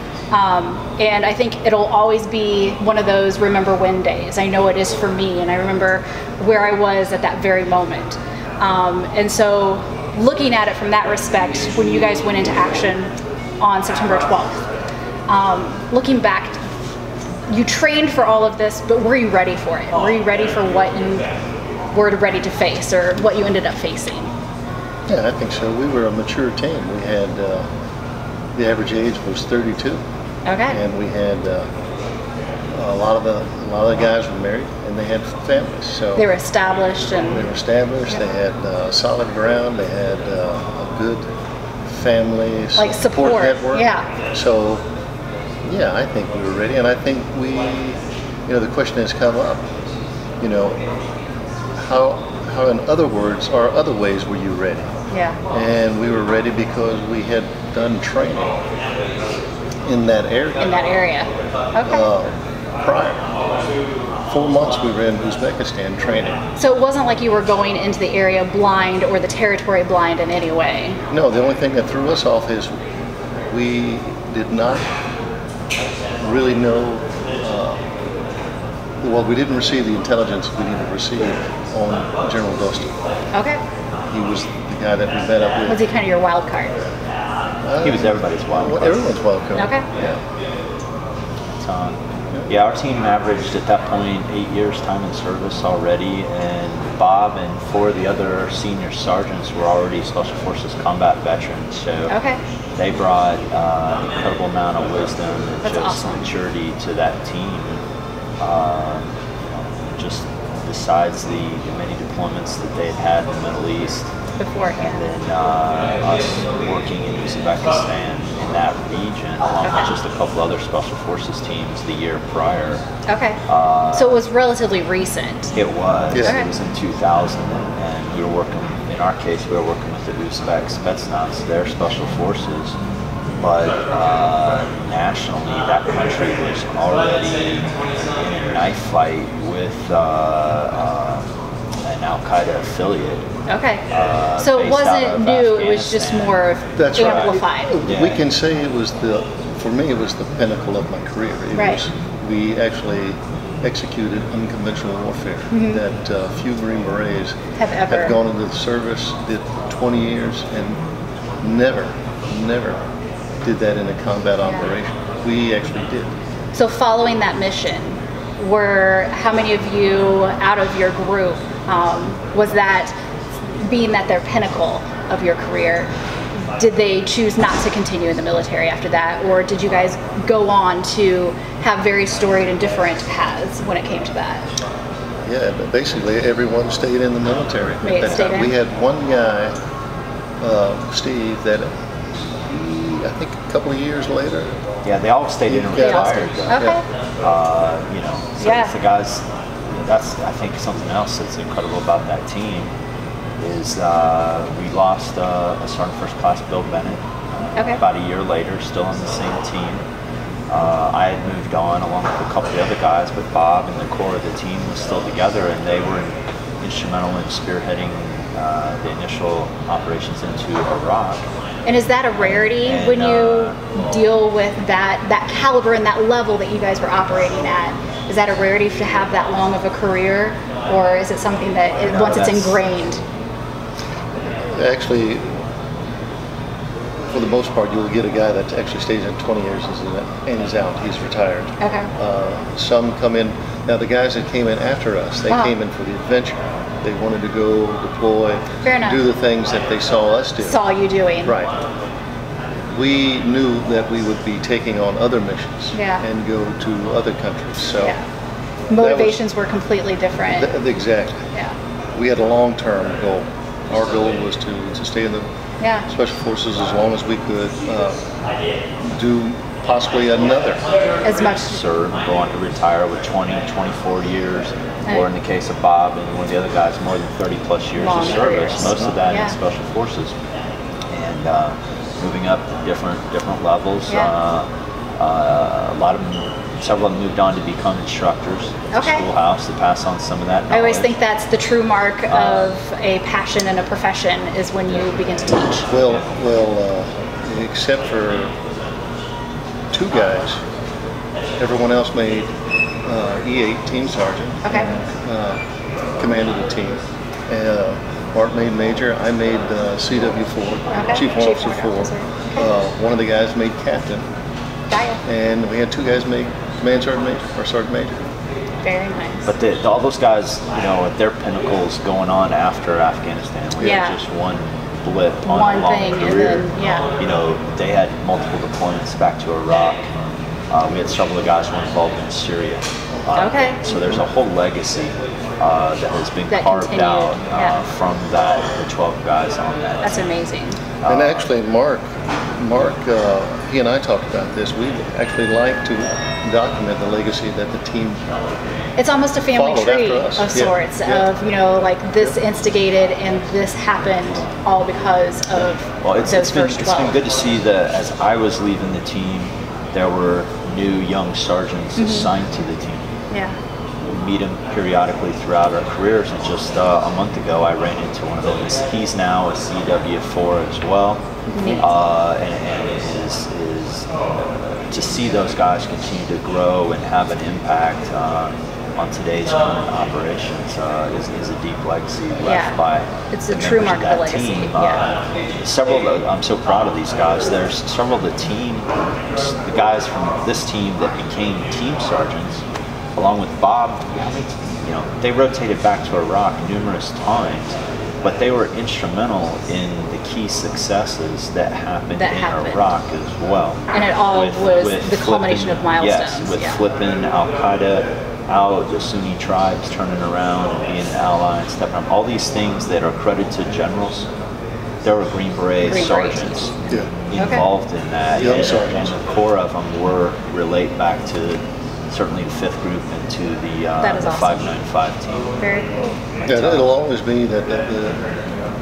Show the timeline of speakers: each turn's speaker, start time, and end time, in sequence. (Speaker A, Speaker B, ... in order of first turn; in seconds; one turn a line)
Speaker A: 0.3-14.6
Speaker A: 15.3-16.6
Speaker A: 17.5-21.2
Speaker A: 21.9-24.3
Speaker B: 25.1-27.7
Speaker B: 28.6-30.0
Speaker A: 30.4-30.8
Speaker B: 30.7-31.6
Speaker B: 32.7-36.2
Speaker A: 36.1-37.5
Speaker B: 37.3-41.2
Speaker B: 41.9-44.8
Speaker A: 42.8-44.1
Speaker B: 45.6-49.6
Speaker B: 50.4-50.8
Speaker B: 51.8-54.9
Speaker A: 55.1-55.4
Speaker B: 55.5-58.6
Speaker B: 59.8-60.7
Speaker A: 60.6-62.0
Speaker B: 61.8-63.2
Speaker B: 64.3-66.4
Speaker A: 66.6-71.0
Speaker B: 71.1-72.7
Speaker B: 73.5-74.8
Speaker B: 76.2-77.8
Speaker B: 79.0-82.9
Speaker A: 83.3-83.6
Speaker B: 84.1-85.8
Speaker A: 85.7-86.8
Speaker B: 87.6-89.7
Speaker C: 87.8-89.0
Speaker A: 89.5-89.9
Speaker C: 89.9-90.2
Speaker C: 91.6-92.0
Speaker C: 92.5-102.1
Speaker A: 102.1-102.4
Speaker C: 102.8-107.8
Speaker A: 105.6-106.2
Speaker C: 108.4-114.1
Speaker A: 114.4-115.1
Speaker C: 114.8-122.8
Speaker A: 119.6-119.9
Speaker A: 123.1-123.4
Speaker C: 123.5-124.2
Speaker A: 123.9-125.5
Speaker C: 125.5-132.8
Speaker B: 126.1-126.4
Speaker A: 126.2-126.5
Speaker C: 133.4-141.2
Speaker C: 141.8-143.2
Speaker A: 143.5-143.8
Speaker C: 143.9-148.2
Speaker A: 144.4-147.8
Speaker B: 146.8-157.3
Speaker A: 151.5-151.8
Speaker A: 155.5-155.8
Speaker A: 157.6-158.2
Speaker B: 157.9-160.8
Speaker B: 161.4-162.8
Speaker B: 163.4-166.1
Speaker A: 166.5-172.9
Speaker A: 173.6-175.9
Speaker A: 176.5-184.4
Speaker B: 185.2-189.5
Speaker A: 187.8-188.5
Speaker B: 190.4-191.7
Speaker B: 192.4-194.5
Speaker C: 194.8-196.6
Speaker B: 195.5-196.8
Speaker A: 195.8-196.8
Speaker C: 197.2-202.7
Speaker A: 198.4-198.8
Speaker C: 203.4-207.0
Speaker A: 207.6-207.8
Speaker C: 207.8-209.8
Speaker C: 210.5-221.3
Speaker A: 221.6-233.0
Speaker C: 222.2-223.6
Speaker C: 231.8-232.6
Speaker B: 234.4-235.3
Speaker B: 237.1-250.6
Speaker A: 241.6-241.9
Speaker A: 245.3-245.5
Speaker A: 248.6-249.0
Speaker A: 250.4-251.4
Speaker B: 251.2-251.5
Speaker B: 252.7-257.9
Speaker A: 255.7-256.0
Speaker A: 257.8-258.0
Speaker A: 258.7-260.5
Speaker B: 258.8-259.2
Speaker B: 260.3-261.3
Speaker B: 261.9-265.2
Speaker A: 265.6-265.9
Speaker B: 265.9-268.0
Speaker B: 268.9-270.6
Speaker A: 271.0-271.6
Speaker C: 271.1-280.1
Speaker A: 274.8-275.1
Speaker A: 277.8-279.4
Speaker C: 280.9-290.9
Speaker A: 283.9-284.1
Speaker A: 288.7-289.1
Speaker A: 290.5-295.6
Speaker C: 292.1-292.5
Speaker B: 295.7-298.3
Speaker B: 299.7-300.4
Speaker B: 301.4-302.3
Speaker B: 302.8-305.4
Speaker A: 304.4-304.7
Speaker B: 306.0-314.0
Speaker A: 310.7-312.5
Speaker A: 314.7-315.0
Speaker B: 315.1-318.0
Speaker A: 318.6-319.3
Speaker C: 319.2-329.8
Speaker A: 323.6-324.0
Speaker A: 325.2-326.9
Speaker C: 330.5-340.0
Speaker A: 333.1-333.6
Speaker A: 336.3-337.6
Speaker A: 339.8-340.6
Speaker C: 340.8-341.3
Speaker B: 340.9-348.0
Speaker A: 348.8-357.0
Speaker B: 349.3-351.1
Speaker C: 355.8-362.8
Speaker A: 361.8-362.1
Speaker A: 363.1-363.4
Speaker C: 363.9-392.4
Speaker A: 371.3-371.7
Speaker A: 382.2-382.6
Speaker A: 383.1-384.9
Speaker C: 392.9-414.1
Speaker A: 401.9-402.7
Speaker A: 403.7-406.6
Speaker C: 414.8-425.3
Speaker A: 415.6-416.5
Speaker A: 417.1-417.5
Speaker B: 418.2-418.9
Speaker A: 423.8-424.5
Speaker A: 425.4-425.9
Speaker C: 426.2-426.7
Speaker B: 426.2-428.0